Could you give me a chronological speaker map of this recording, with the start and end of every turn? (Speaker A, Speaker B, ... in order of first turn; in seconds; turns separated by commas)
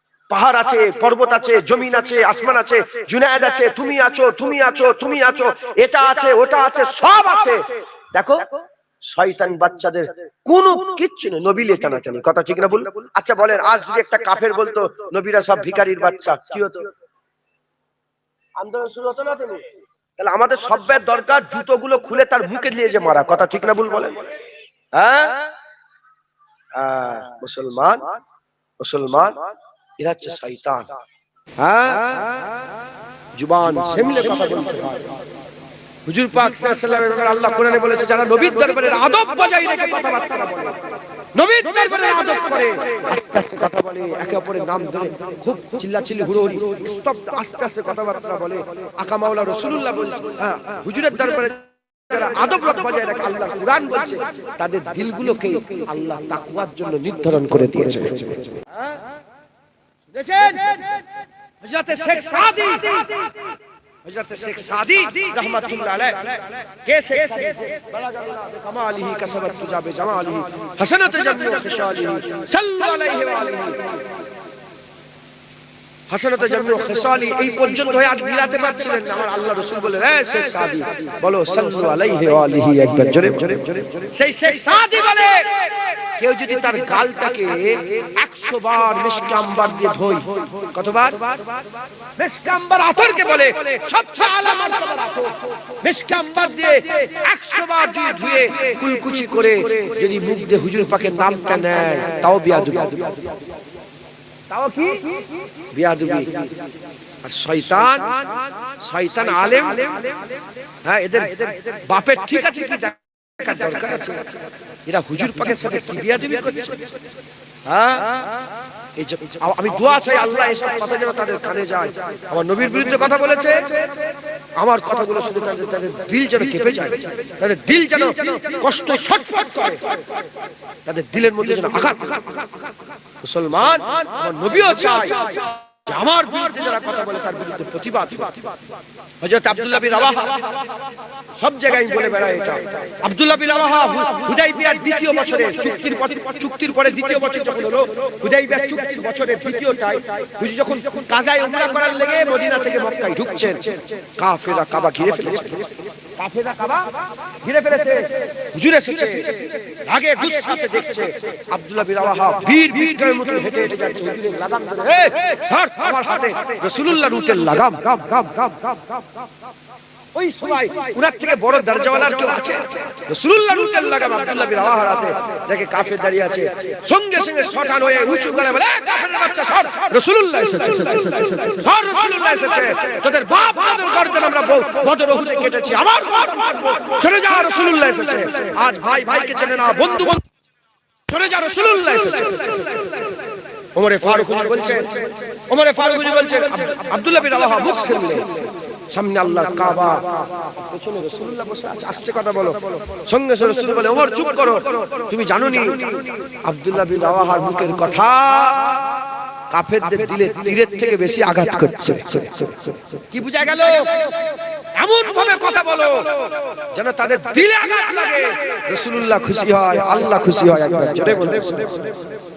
Speaker A: 0.3-16.9, Speaker A: 18.6-24.4, Speaker A: 24.9-25.5, Speaker A: 26.7-28.2, Speaker A: 28.8-29.4, Speaker A: 30.0-30.9, Speaker A: 31.6-32.5, Speaker A: 33.3-35.2, Speaker A: 36.0-58.8, Speaker A: 60.1-61.0, Speaker A: 61.6-63.3, Speaker A: 64.0-74.0, Speaker A: 76.1-91.4, Speaker A: 92.2-103.4, Speaker A: 104.5-106.5, Speaker A: 107.2-110.2, Speaker A: 110.8-116.9, Speaker A: 117.7-118.2, Speaker A: 119.0-130.0, Speaker A: 130.8-132.4, Speaker A: 133.2-138.4, Speaker A: 139.2-140.7, Speaker A: 141.3-169.0, Speaker A: 170.1-190.2, Speaker A: 191.1-193.1, Speaker A: 193.7-208.9, Speaker A: 209.5-221.9